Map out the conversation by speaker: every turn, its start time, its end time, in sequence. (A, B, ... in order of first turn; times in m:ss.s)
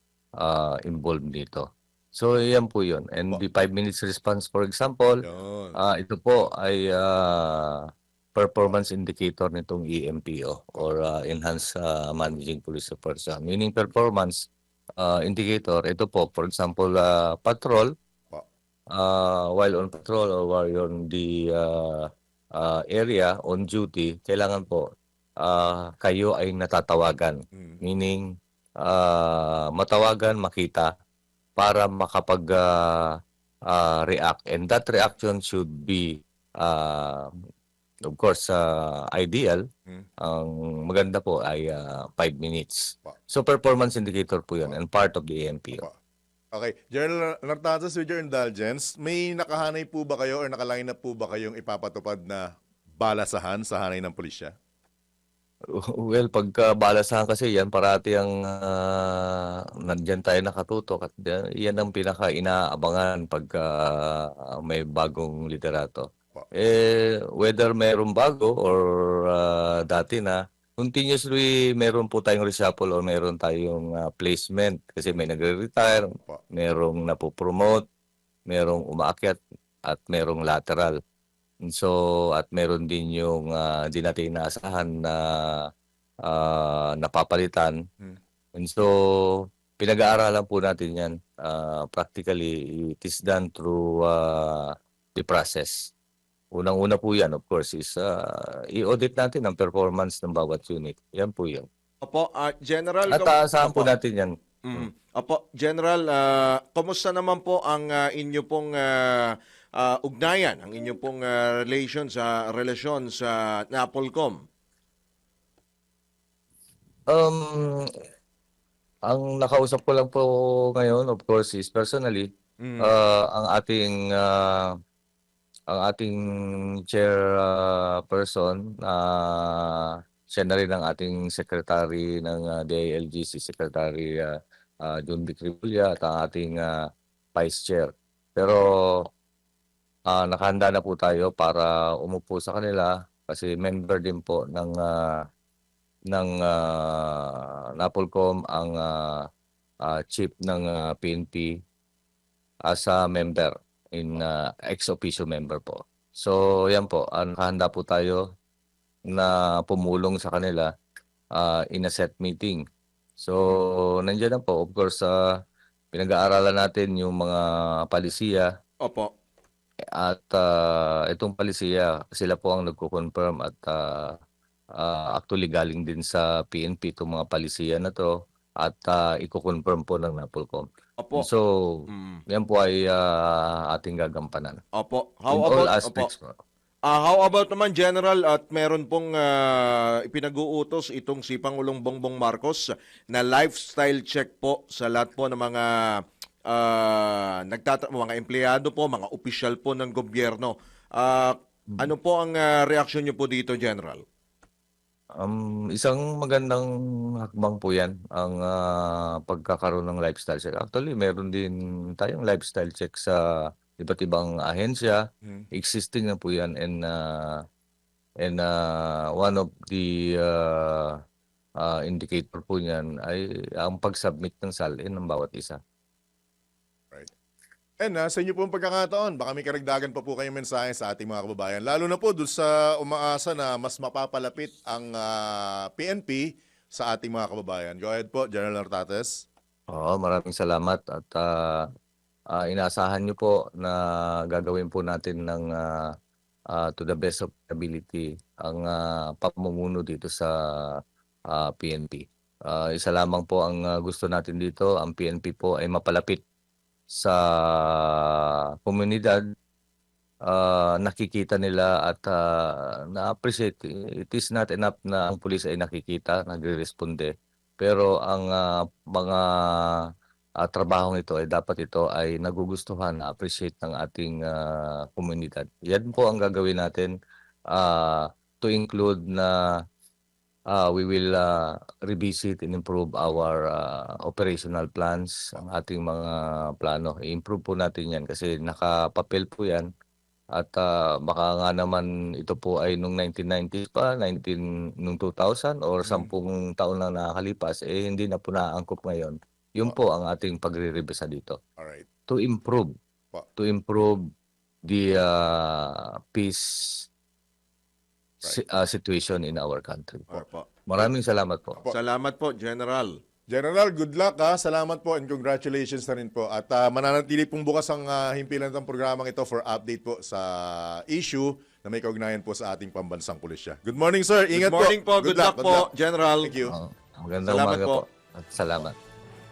0:00.4-0:05.2 A
0:05.2-0:05.8 B
0:05.8-0:14.5 A
0:15.0-0:17.9 A
0:18.9-0:24.8 A
0:25.4-0:28.2 A
0:27.5-0:27.8 B
0:28.8-0:30.9 A
0:31.6-0:33.1 A
0:33.7-0:37.3 A
0:38.1-0:39.6 A
0:40.2-0:45.8 A
0:46.5-0:52.4 B
0:53.0-0:54.5 B
0:55.7-1:17.8 A
1:18.5-1:21.0 A
1:21.7-1:25.7 A
1:26.2-1:27.8 A
1:28.5-1:35.9 A
1:36.5-1:41.6 A
1:42.0-1:43.9 C
1:43.1-1:44.9 A
1:44.7-1:54.4 C
1:57.1-1:57.9 A
1:59.0-2:02.3 A
2:02.6-2:02.9 C
2:02.8-2:04.7 A
2:05.7-2:16.7 A
2:17.3-2:19.0 A
2:20.1-2:25.2 A
2:26.1-2:29.2 A
2:29.8-2:31.5 A
2:32.7-2:38.2 A
2:39.1-2:40.7 A
2:41.3-2:42.6 A
2:43.2-2:45.1 A
2:45.9-2:48.5 A
2:48.8-2:49.1 C
2:50.0-2:54.1 A
2:54.8-3:04.6 A
3:01.0-3:01.3 C
3:01.9-3:02.2 C
3:04.8-3:06.1 C
3:05.3-3:06.4 A
3:06.9-3:24.0 C
3:25.2-3:26.7 A
3:27.2-3:37.4 A
3:38.2-3:41.0 A
3:41.6-3:45.6 A
3:47.8-3:59.1 B
3:59.7-4:01.7 A
4:02.3-4:05.9 A
4:06.5-4:16.2 A
4:17.0-4:19.2 A
4:20.3-4:29.9 A
4:30.4-4:36.9 A
4:37.5-4:39.6 A
4:40.5-4:49.7 A
4:50.3-5:01.4 A
4:55.8-4:56.1 B
5:01.6-5:01.8 B
5:02.1-5:02.7 A
5:03.4-5:04.0 A
5:04.7-5:06.8 A
5:08.2-5:11.6 A
5:11.7-5:12.9 C
5:13.3-5:25.7 B
5:24.3-5:26.3 C
5:26.2-5:26.6 B
5:26.4-5:28.8 A
5:27.3-5:27.8 C